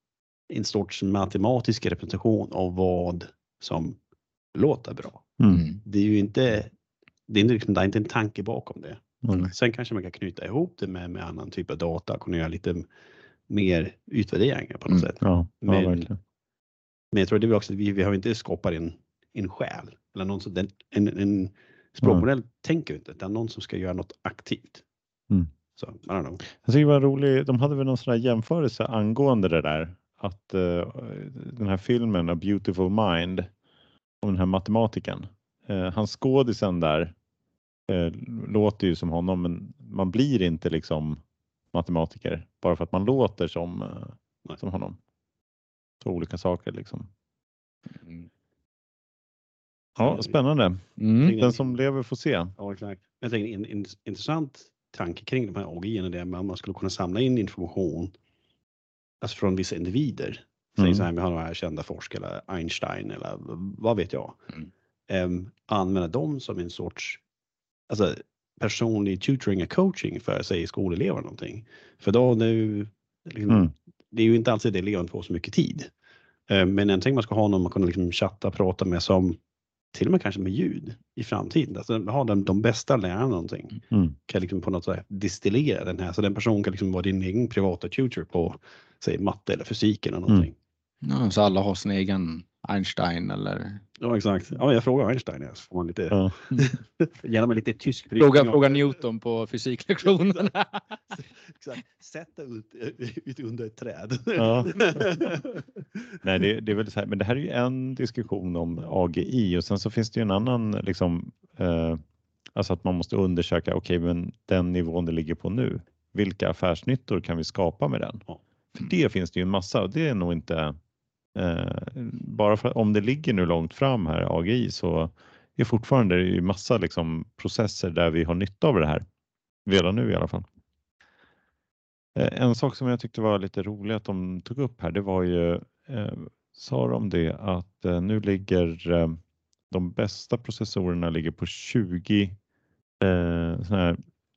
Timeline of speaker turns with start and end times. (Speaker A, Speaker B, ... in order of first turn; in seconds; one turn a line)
Speaker A: 0.5-4.0
Speaker A: 4.5-6.7
Speaker B: 5.4-5.6
Speaker A: 7.3-12.8
Speaker B: 9.2-9.5
Speaker A: 13.5-16.1
Speaker B: 15.2-16.2
Speaker A: 17.1-24.8
Speaker A: 25.8-26.4
Speaker B: 26.6-33.5
Speaker B: 34.2-37.1
Speaker B: 37.9-41.2
Speaker B: 41.7-45.0
Speaker B: 46.0-47.1
Speaker B: 50.0-52.5
Speaker A: 50.0-50.3
Speaker C: 51.0-51.3
Speaker A: 51.2-51.8
Speaker A: 52.6-58.1
Speaker A: 59.2-64.5
Speaker B: 60.8-61.1
Speaker A: 65.1-67.2
Speaker A: 67.9-75.9
Speaker A: 76.5-79.4
Speaker A: 79.9-90.5
Speaker B: 83.9-84.2
Speaker C: 91.0-93.8
Speaker A: 94.0-98.9
Speaker B: 96.1-96.3
Speaker C: 98.2-100.8
Speaker A: 101.5-105.8
Speaker B: 104.3-105.2
Speaker B: 106.2-112.0
Speaker B: 112.5-120.8
Speaker B: 121.3-129.0
Speaker B: 129.7-130.4
Speaker B: 132.1-139.2
Speaker B: 139.7-142.3
Speaker B: 143.0-144.0